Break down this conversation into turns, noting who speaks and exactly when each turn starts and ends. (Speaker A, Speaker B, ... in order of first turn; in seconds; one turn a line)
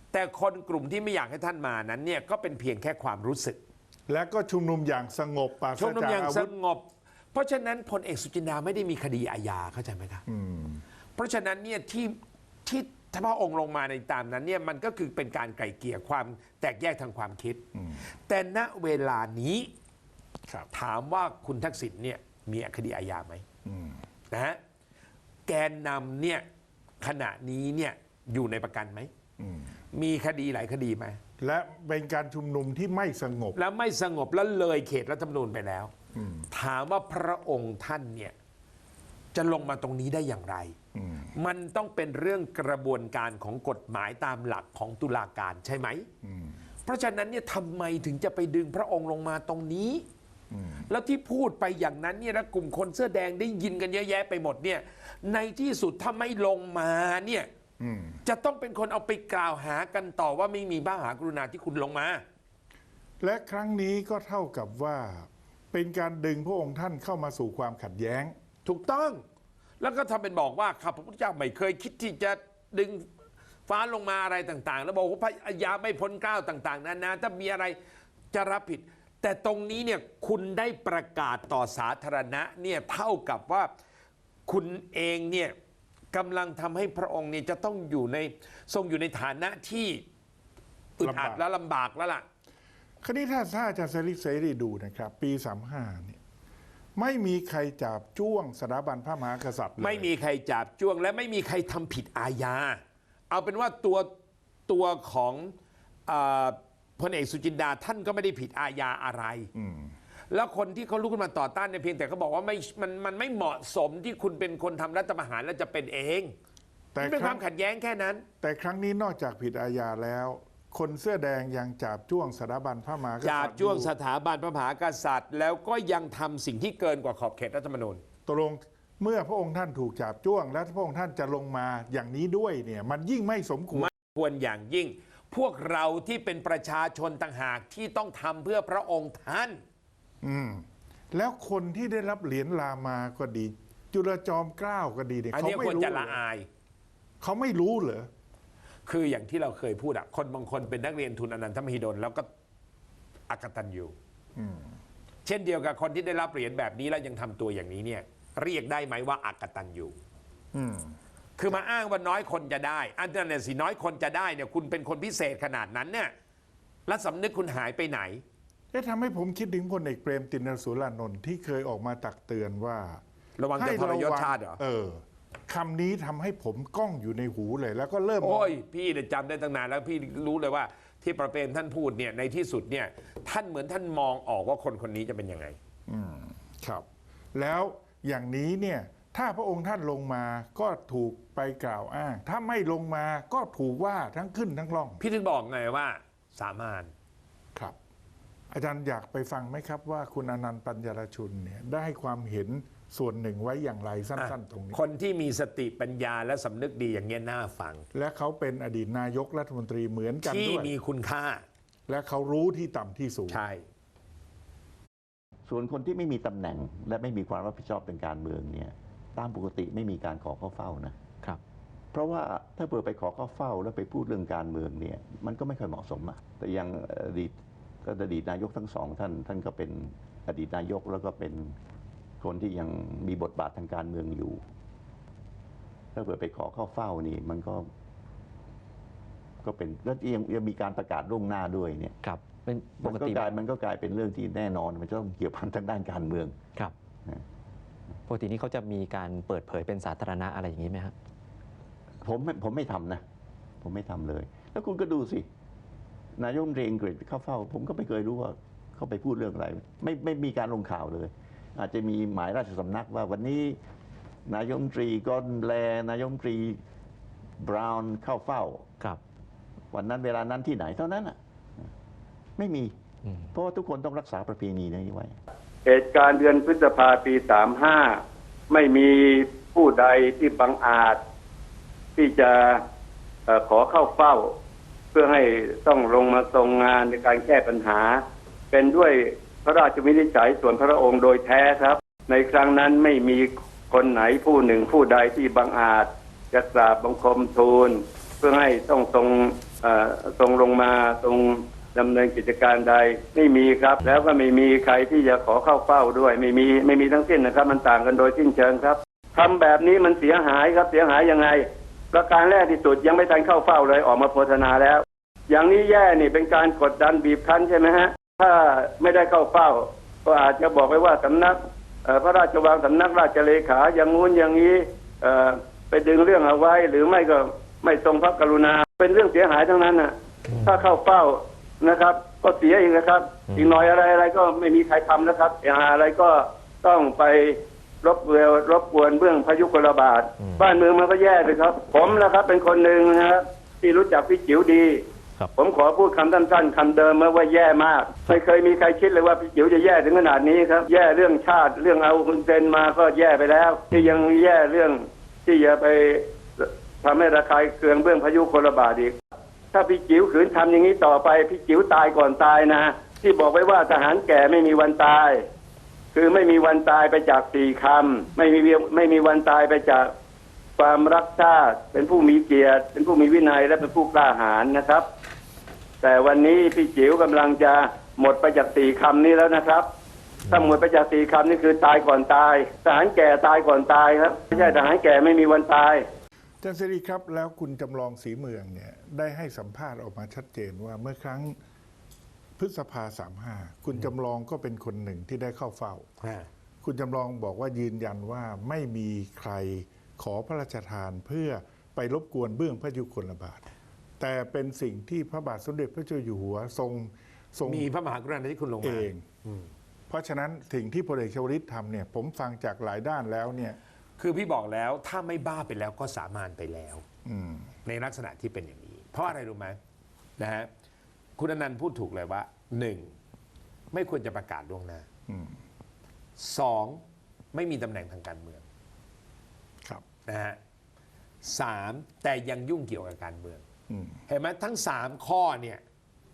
Speaker A: 0.1-3.6
Speaker B: 4.1-6.5
Speaker A: 5.8-10.2
Speaker B: 10.3-10.8
Speaker A: 11.2-17.6
Speaker B: 17.7-18.0
Speaker A: 18.2-19.7
Speaker A: 20.7-23.4
Speaker B: 23.6-24.0
Speaker A: 24.3-24.6
Speaker A: 25.5-26.4
Speaker A: 27.0-29.1
Speaker B: 29.4-29.7
Speaker A: 29.9-31.2
Speaker B: 31.4-33.6
Speaker A: 33.5-35.9
Speaker B: 36.1-36.5
Speaker A: 36.5-38.3
Speaker A: 39.3-40.7
Speaker B: 40.9-41.3
Speaker A: 41.3-46.0
Speaker B: 46.2-46.6
Speaker A: 46.8-50.0
Speaker B: 50.5-50.9
Speaker A: 50.9-57.5
Speaker B: 57.8-58.2
Speaker A: 58.2-62.2
Speaker B: 63.2-68.3
Speaker A: 68.6-69.2
Speaker A: 69.8-73.0
Speaker A: 73.7-77.8
Speaker A: 78.3-83.7
Speaker A: 84.5-85.5
Speaker A: 86.1-90.0
Speaker A: 91.0-92.2
Speaker B: 91.0-91.4
Speaker B: 93.0-96.2
Speaker B: 97.0-100.1
Speaker A: 99.8-104.1
Speaker A: 104.7-105.5
Speaker A: 106.1-109.5
Speaker B: 109.5-109.9
Speaker A: 110.3-116.3
Speaker B: 116.9-117.4
Speaker A: 117.0-118.2
Speaker B: 118.4-123.9
Speaker A: 123.2-128.0
Speaker B: 128.2-133.9
Speaker A: 133.7-139.6
Speaker B: 140.2-146.2
Speaker A: 145.3-146.5
Speaker B: 147.2-148.1
Speaker A: 148.8-152.3
Speaker A: 153.3-153.9
Speaker B: 154.3-154.7
Speaker A: 155.2-160.0
Speaker B: 160.5-161.0
Speaker A: 161.4-166.1
Speaker A: 166.8-168.2
Speaker B: 168.7-173.0
Speaker A: 173.4-174.6
Speaker B: 173.5-178.6
Speaker A: 178.2-185.6
Speaker B: 185.9-195.0
Speaker A: 195.0-196.9
Speaker B: 198.5-204.8
Speaker A: 204.2-207.8
Speaker B: 207.9-210.7
Speaker A: 210.2-211.4
Speaker B: 211.9-213.4
Speaker A: 213.3-213.6
Speaker C: 215.4-220.9
Speaker C: 221.9-227.3
Speaker C: 227.8-231.6
Speaker C: 232.2-234.4
Speaker C: 235.9-237.7
Speaker C: 239.4-241.9
Speaker D: 242.0-243.3
Speaker C: 242.8-246.4
Speaker D: 248.1-250.9
Speaker C: 252.0-253.0
Speaker C: 253.6-255.2
Speaker C: 256.2-263.6
Speaker C: 264.2-266.6
Speaker C: 267.4-268.7
Speaker C: 269.7-271.7
Speaker C: 272.4-275.2
Speaker E: 275.6-278.0
Speaker E: 278.5-281.0
Speaker E: 281.9-282.6
Speaker E: 283.3-284.3
Speaker E: 284.9-288.0
Speaker E: 288.5-344.8
Speaker D: 330.3-330.6
Speaker E: 345.4-358.9
Speaker E: 359.5-365.2
Speaker E: 365.9-369.9
Speaker E: 370.6-374.8
Speaker E: 375.8-379.7
Speaker E: 380.3-385.8
Speaker B: 386.4-391.4
Speaker B: 392.4-395.9
Speaker A: 396.0-396.3
Speaker B: 396.6-403.4
Speaker B: 404.0-407.7
Speaker A: 407.4-409.5
Speaker B: 408.6-409.0
Speaker B: 409.9-413.6
Speaker A: 414.0-416.8
Speaker B: 417.1-417.5
Speaker A: 417.6-419.6
Speaker A: 420.2-420.5
Speaker A: 421.2-422.9
Speaker A: 423.7-424.9
Speaker B: 425.1-425.4
Speaker A: 426.2-426.8
Speaker A: 427.3-428.4
Speaker A: 430.1-430.4
Speaker A: 431.2-433.4
Speaker B: 433.7-434.0
Speaker A: 434.1-435.6